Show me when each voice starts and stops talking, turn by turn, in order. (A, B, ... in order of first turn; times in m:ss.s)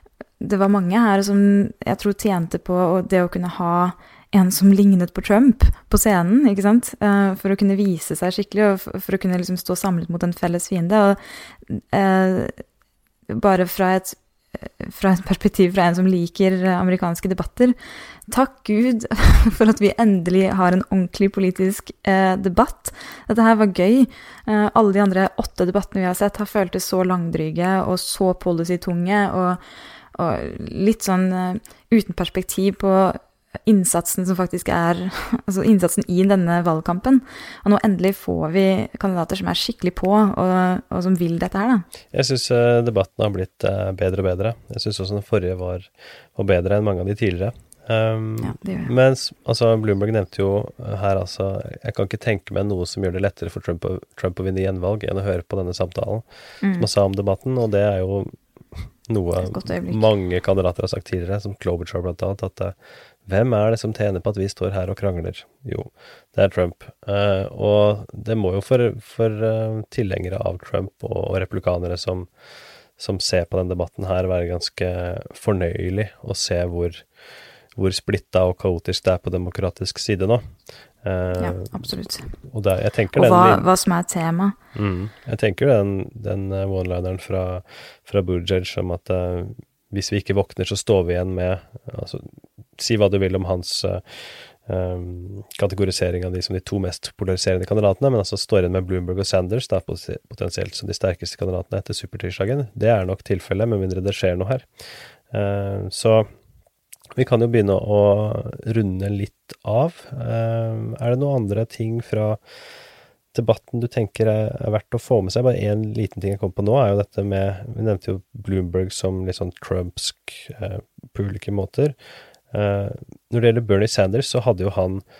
0:00.4-0:12.6 A
0:13.3-0:17.8 A
0:18.3-0:29.6 A
0:30.2-0:41.9 A
0:42.1-1:02.8 B
0:48.4-0:48.9 A
0:56.6-0:56.9 A
0:59.4-1:00.1 A
1:03.3-1:12.3 B
1:13.0-1:17.1 B
1:17.8-1:20.5 B
1:21.0-1:23.7 B
1:21.4-1:22.3 A
1:23.1-1:24.6 A
1:24.8-1:44.7 B
1:45.3-1:46.3 B
1:47.2-1:52.4 B
1:53.3-2:02.0 B
2:02.5-2:05.0 B